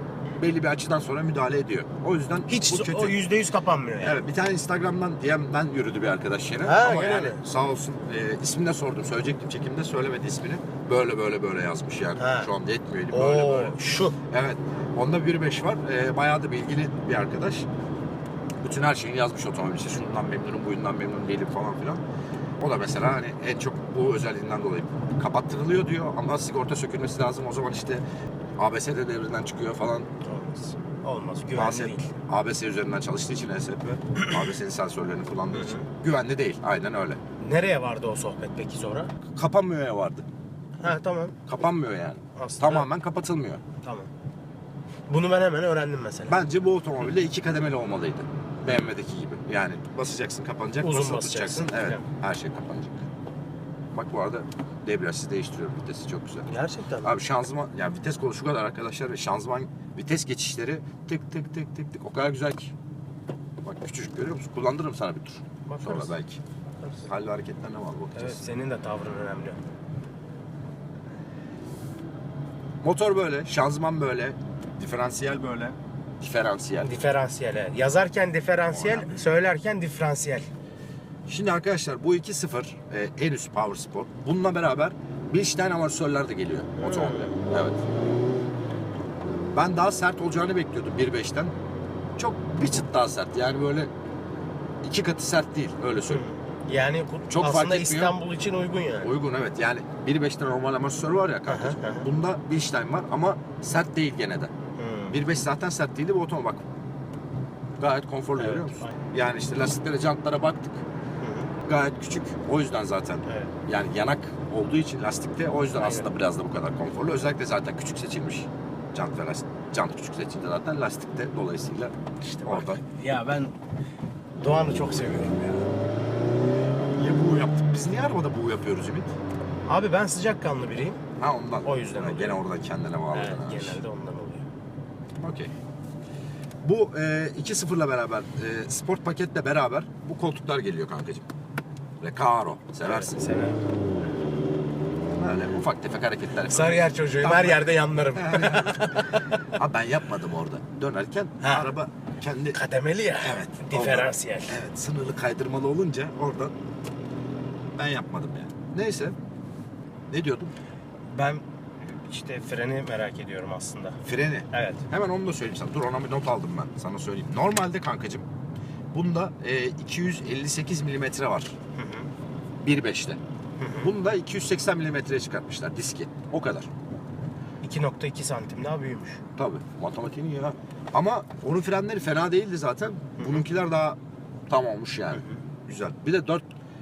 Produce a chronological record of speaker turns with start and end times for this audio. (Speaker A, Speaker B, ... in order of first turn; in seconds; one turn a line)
Speaker A: 0.4-3.2
Speaker B: 2.5-4.2
Speaker A: 4.0-17.7
Speaker B: 6.6-7.4
Speaker B: 12.2-12.5
Speaker B: 13.1-14.2
Speaker A: 18.6-22.0
Speaker A: 22.6-28.0
Speaker A: 28.6-30.1
Speaker B: 30.2-32.1
Speaker A: 31.5-37.2
Speaker B: 35.5-35.9
Speaker B: 37.4-39.1
Speaker A: 39.3-40.3
Speaker B: 40.8-41.4
Speaker A: 41.5-43.6
Speaker B: 42.4-42.9
Speaker B: 43.8-44.1
Speaker B: 45.1-46.4
Speaker A: 46.3-53.1
Speaker B: 50.8-52.1
Speaker A: 53.9-56.5
Speaker B: 56.5-57.1
Speaker A: 57.0-62.7
Speaker A: 63.6-66.4
Speaker B: 65.7-66.2
Speaker B: 66.8-67.1
Speaker A: 67.0-68.5
Speaker B: 68.2-69.6
Speaker A: 72.8-77.0
Speaker B: 76.8-80.5
Speaker A: 78.7-79.2
Speaker A: 81.3-87.8
Speaker B: 86.8-87.4
Speaker A: 89.5-91.5
Speaker A: 92.2-93.9
Speaker A: 94.8-96.2
Speaker B: 96.1-99.1
Speaker A: 97.3-98.2
Speaker A: 99.0-104.5
Speaker B: 101.5-102.1
Speaker B: 104.8-105.2
Speaker A: 105.1-106.6
Speaker A: 107.8-110.8
Speaker B: 108.4-109.0
Speaker B: 111.2-111.5
Speaker A: 111.6-121.9
Speaker B: 113.3-113.5
Speaker B: 115.8-116.1
Speaker B: 122.2-123.5
Speaker A: 122.5-122.8
Speaker B: 124.4-125.7
Speaker A: 127.0-129.2
Speaker B: 129.7-131.0
Speaker A: 131.2-133.8
Speaker B: 131.6-132.4
Speaker B: 133.1-134.5
Speaker A: 135.2-135.5
Speaker A: 136.6-141.3
Speaker A: 142.0-143.2
Speaker B: 142.8-143.6
Speaker A: 145.1-152.6
Speaker B: 146.5-149.3
Speaker B: 151.4-151.7
Speaker B: 152.5-154.6
Speaker A: 153.2-156.6
Speaker A: 157.8-159.2
Speaker A: 160.1-160.6
Speaker B: 161.1-164.0
Speaker A: 164.1-168.3
Speaker B: 164.5-164.8
Speaker A: 168.9-171.6
Speaker B: 171.8-172.1
Speaker A: 172.6-173.2
Speaker B: 173.6-173.9
Speaker A: 173.8-176.7
Speaker B: 177.6-179.2
Speaker A: 179.4-186.5
Speaker B: 183.2-183.4
Speaker B: 185.1-185.4